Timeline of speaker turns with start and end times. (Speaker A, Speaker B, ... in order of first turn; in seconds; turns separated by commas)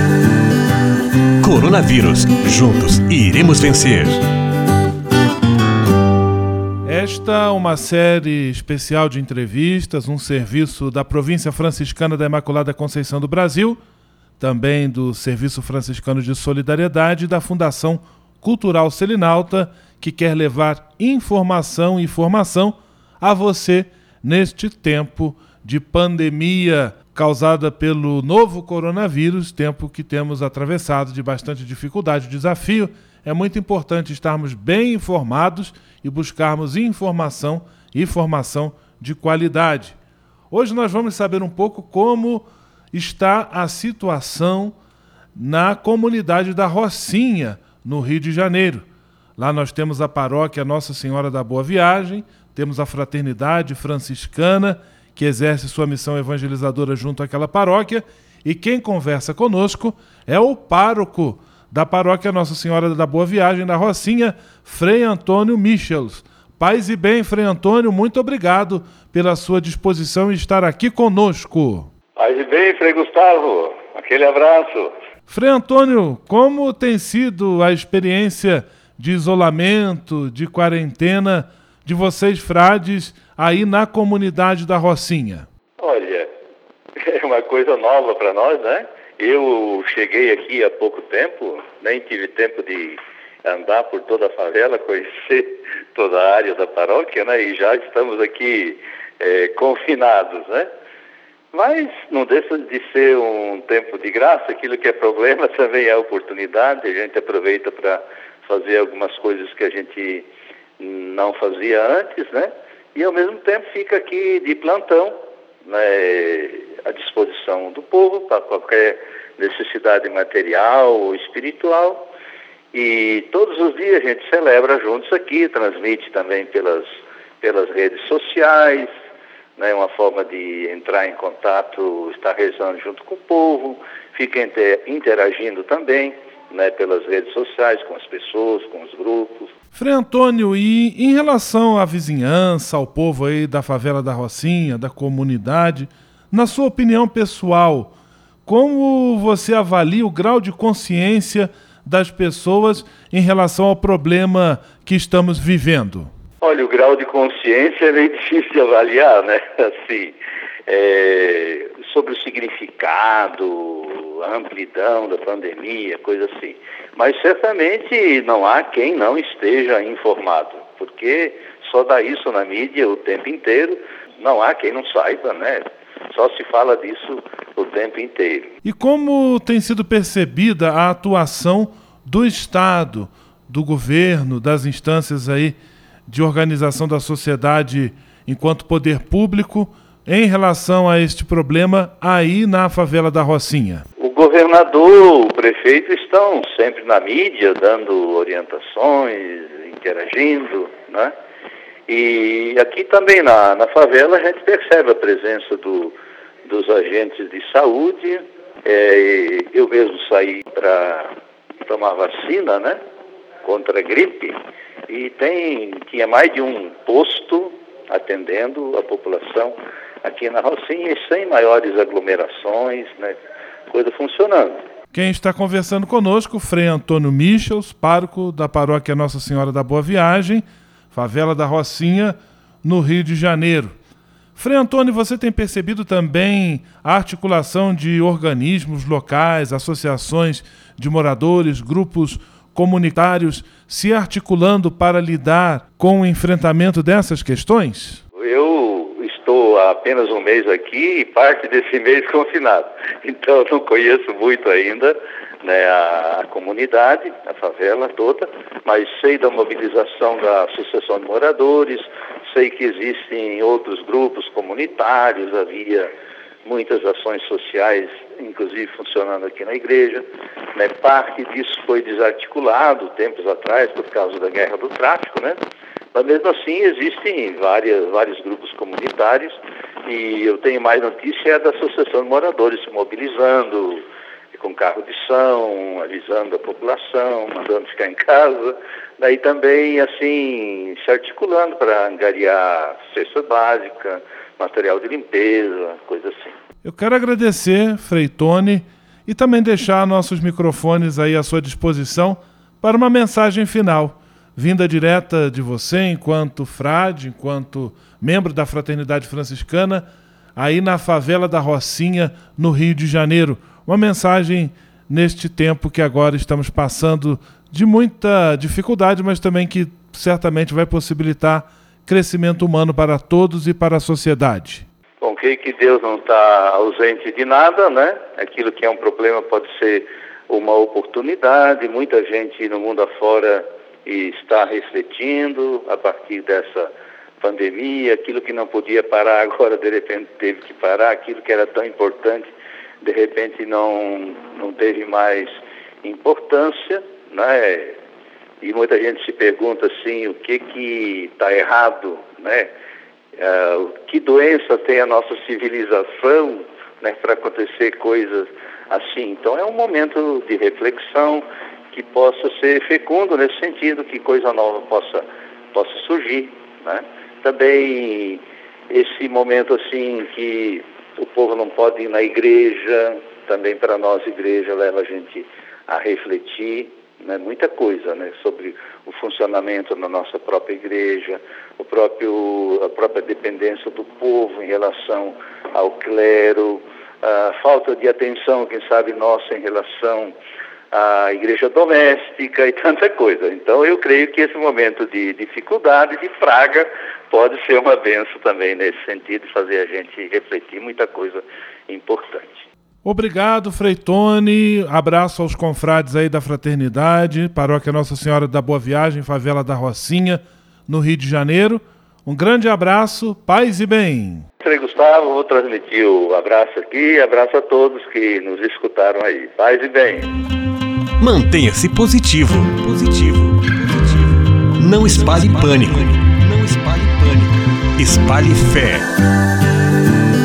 Speaker A: 1.4-4.2, Speaker B: 6.9-13.8, Speaker B: 14.4-40.0, Speaker B: 40.5-44.8, Speaker B: 45.4-48.9, Speaker B: 49.4-71.9, Speaker C: 72.2-74.9, Speaker B: 75.3-85.5, Speaker C: 85.8-86.3, Speaker C: 87.0-100.7, Speaker C: 101.5-110.3, Speaker C: 110.8-122.1, Speaker C: 122.7-128.9, Speaker C: 129.6-139.5, Speaker B: 139.7-147.9, Speaker B: 148.5-156.1, Speaker C: 156.4-178.5, Speaker B: 178.6-193.8, Speaker C: 194.0-201.1, Speaker C: 201.9-211.1, Speaker C: 211.6-212.8, Speaker C: 213.4-214.4, Speaker C: 214.9-223.2, Speaker C: 223.7-224.6, Speaker B: 224.9-233.7, Speaker B: 234.4-248.0, Speaker C: 248.2-265.9, Speaker C: 266.4-275.4, Speaker C: 275.9-296.4, Speaker B: 296.6-309.9, Speaker B: 310.4-324.6, Speaker C: 325.0-347.8, Speaker C: 348.4-352.5, Speaker C: 353.2-390.1, Speaker C: 390.7-402.5, Speaker B: 402.8-414.3, Speaker C: 414.4-420.1, Speaker A: 421.0-428.9